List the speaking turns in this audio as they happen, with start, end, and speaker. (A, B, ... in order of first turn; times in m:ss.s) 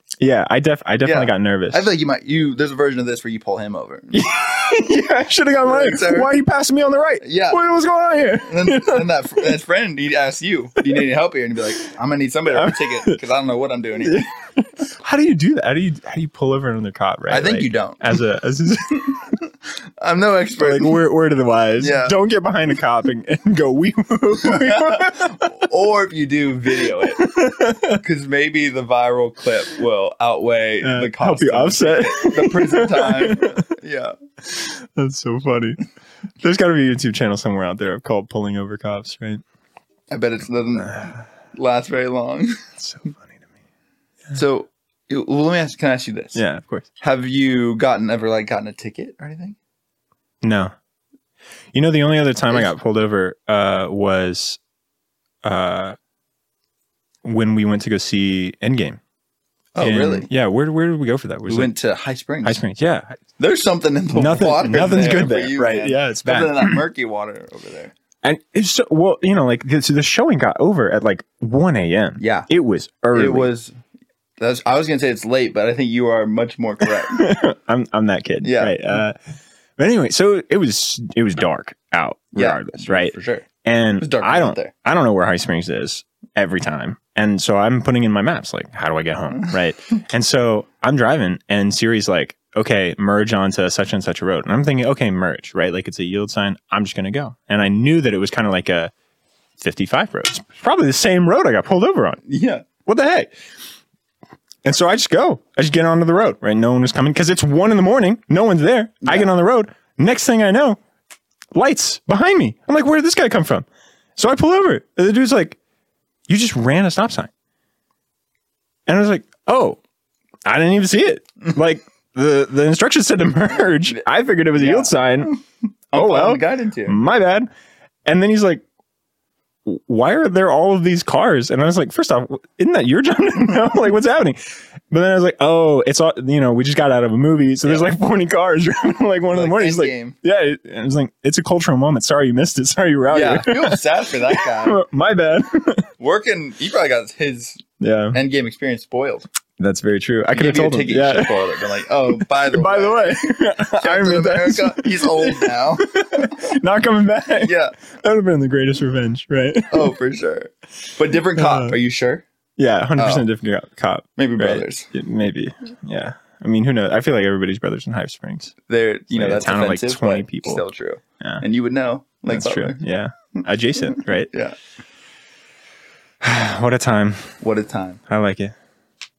0:00.2-0:01.9 A
0:01.0-0:04.2 B
0:04.1-0:09.5 A
0:05.6-0:06.3 B
0:07.2-0:07.6 B
0:08.5-0:14.3 B
0:12.5-0:13.2 A
0:14.0-0:19.3 A
0:17.3-0:18.0 B
0:20.0-0:21.0 B
0:20.6-0:25.5 A
0:21.8-0:22.2 B
0:24.4-0:27.2 B
0:26.8-0:28.0 A
0:28.0-0:34.1 B
0:30.8-0:33.7 A
0:34.5-0:35.8 A
0:36.4-0:39.4 A
0:40.1-0:42.6 B
0:40.9-0:41.2 A
0:42.8-0:43.4 A
0:44.3-0:46.4 B
0:46.4-0:46.9 A
0:47.0-0:49.6 B
0:50.4-0:50.7 A
0:51.7-0:54.6 A
0:55.4-0:56.0 A
0:57.2-0:59.0 A
0:59.8-1:00.3 B
0:59.8-1:01.7 A
1:01.5-1:02.6 B
1:02.4-1:03.2 A
1:03.4-1:07.9 B
1:04.2-1:06.8 A
1:08.2-1:13.5 A
1:12.2-1:12.5 B
1:13.1-1:13.7 B
1:14.4-1:17.3 B
1:17.1-1:19.2 A
1:18.4-1:18.8 B
1:19.8-1:38.9 A
1:22.4-1:23.5 B
1:24.0-1:24.7 B
1:39.6-1:42.2 A
1:42.3-1:42.6 B
1:42.8-1:43.3 A
1:44.6-1:50.8 A
1:51.5-1:53.6 A
1:54.2-1:55.6 A
1:56.3-1:57.3 A
1:58.9-1:59.8 A
2:00.5-2:05.4 A
2:04.6-2:07.0 B
2:05.9-2:07.5 A
2:08.1-2:08.6 A
2:09.7-2:23.8 A
2:17.6-2:17.9 B
2:19.3-2:20.2 B
2:23.1-2:24.8 B
2:24.3-2:25.9 A
2:26.0-2:27.6 B
2:27.8-2:28.2 A
2:28.1-2:29.3 B
2:29.6-2:31.4 A
2:30.3-2:36.4 B
2:32.1-2:39.9 A
2:37.4-2:37.8 B
2:39.7-2:42.2 B
2:41.4-2:41.8 A
2:42.6-2:48.6 A
2:43.0-2:43.3 B
2:44.2-2:44.9 B
2:48.7-2:52.8 B
2:49.1-2:50.6 A
2:52.3-2:54.3 A
2:53.8-2:54.6 B
2:56.2-2:57.3 A
2:57.4-2:58.0 B
2:58.1-2:58.5 A